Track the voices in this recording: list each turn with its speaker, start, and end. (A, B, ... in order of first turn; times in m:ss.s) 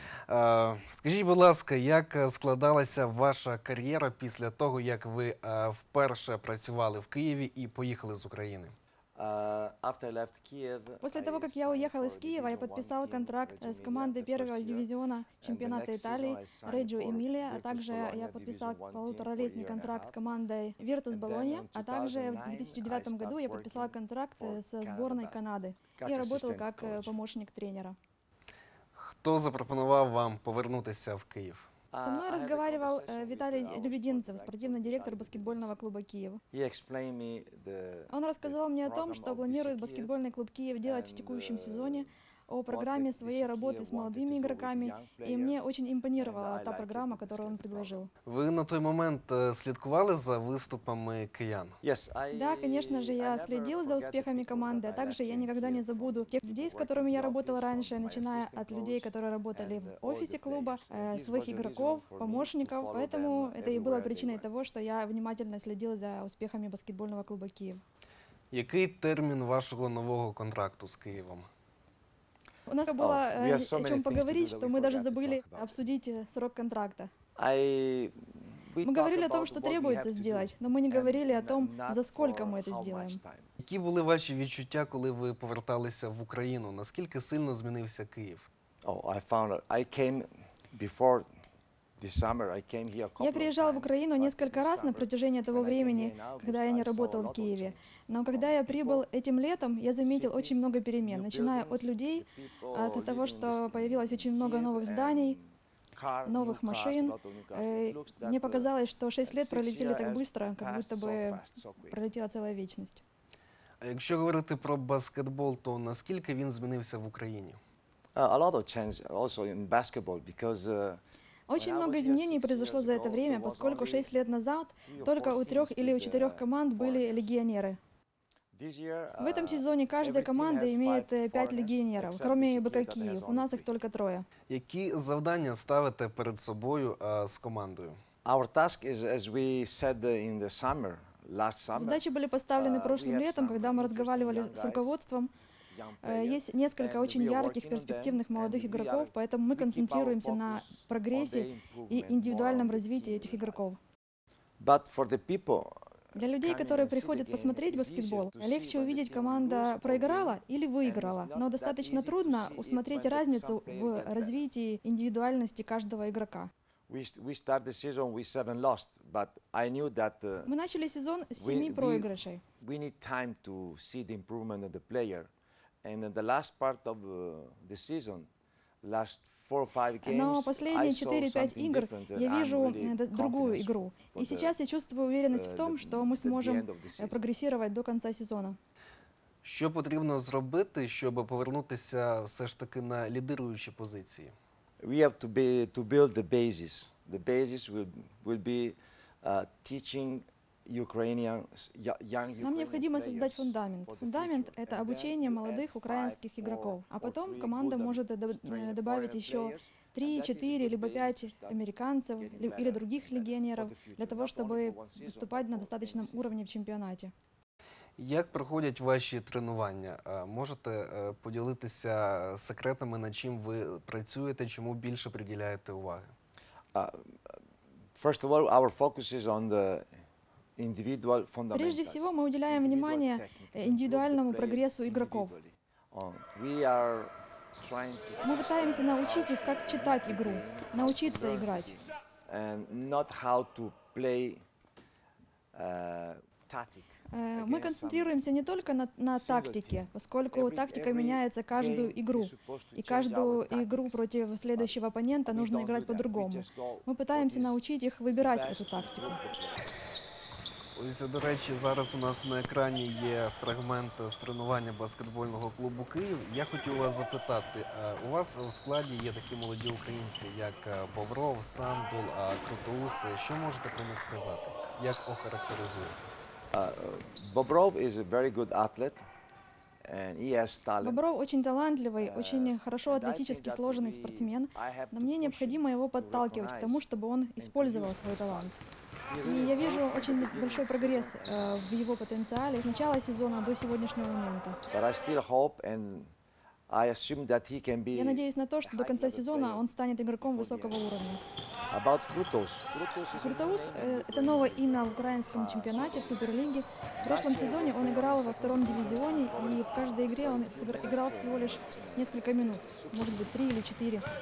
0:00.3-0:08.7 A
0:09.2-0:14.9 B
0:11.0-0:27.9 C
0:15.4-0:20.2 B
0:21.1-0:25.4 B
0:26.0-0:27.1 B
0:28.9-0:31.7 A
0:31.9-0:35.8 B
0:32.0-0:36.4 C
0:36.5-0:40.1 B
0:38.1-0:48.1 C
0:40.8-0:42.1 B
0:42.7-0:45.6 B
0:46.2-0:48.0 B
0:48.2-0:51.7 A
0:51.8-1:04.5 B
0:52.3-1:07.8 C
1:08.5-1:11.4 A
1:12.7-1:17.1 C
1:13.0-1:15.8 B
1:17.4-1:23.5 B
1:18.8-1:23.2 C
1:23.6-1:28.5 A
1:28.8-1:31.3 B
1:32.0-1:39.0 B
1:33.2-1:45.4 C
1:40.0-1:48.7 B
1:46.2-1:53.0 C
1:49.2-1:52.0 B
1:53.8-1:57.6 A
1:58.1-2:01.0 B
2:01.5-2:07.8 C
2:01.5-2:04.1 B
2:04.8-2:07.3 B
2:08.5-2:13.7 B
2:09.2-2:14.3 C
2:14.5-2:18.0 A
2:18.2-2:24.9 B
2:21.7-2:25.3 C
2:25.7-2:33.6 B
2:26.0-2:33.8 C
2:34.6-2:44.4 B
2:36.1-2:46.5 C
2:46.9-2:50.5 B
2:50.4-2:52.4 C
2:51.4-2:55.3 B
2:55.8-2:58.3 B
2:58.8-3:04.5 B
3:00.0-3:08.6 C
3:05.3-3:07.2 B
3:09.4-3:14.3 A
3:14.8-3:31.6 B
3:22.4-3:37.1 C
3:32.2-3:36.2 B
3:38.0-3:46.1 A
3:46.7-3:47.4 B
3:47.9-3:49.9 B
3:50.6-4:04.4 B
3:51.5-3:55.4 C
3:58.2-4:01.8 C
4:05.5-4:08.2 B
4:07.1-4:19.2 C
4:09.1-4:14.0 B
4:14.6-4:17.6 B
4:18.2-4:19.7 B
4:20.7-4:36.0 A
4:36.5-4:39.0 B
4:39.8-4:41.0 B
4:40.8-4:48.6 C
4:42.0-4:46.8 B
4:47.4-4:48.5 B
4:49.1-4:51.6 B
4:49.2-4:54.6 C
4:54.7-4:56.1 B
4:56.7-4:59.6 B
4:57.9-5:01.2 C
5:00.2-5:00.9 B
5:01.7-5:06.2 B
5:03.1-5:14.0 C
5:07.0-5:12.1 B
5:12.7-5:13.2 B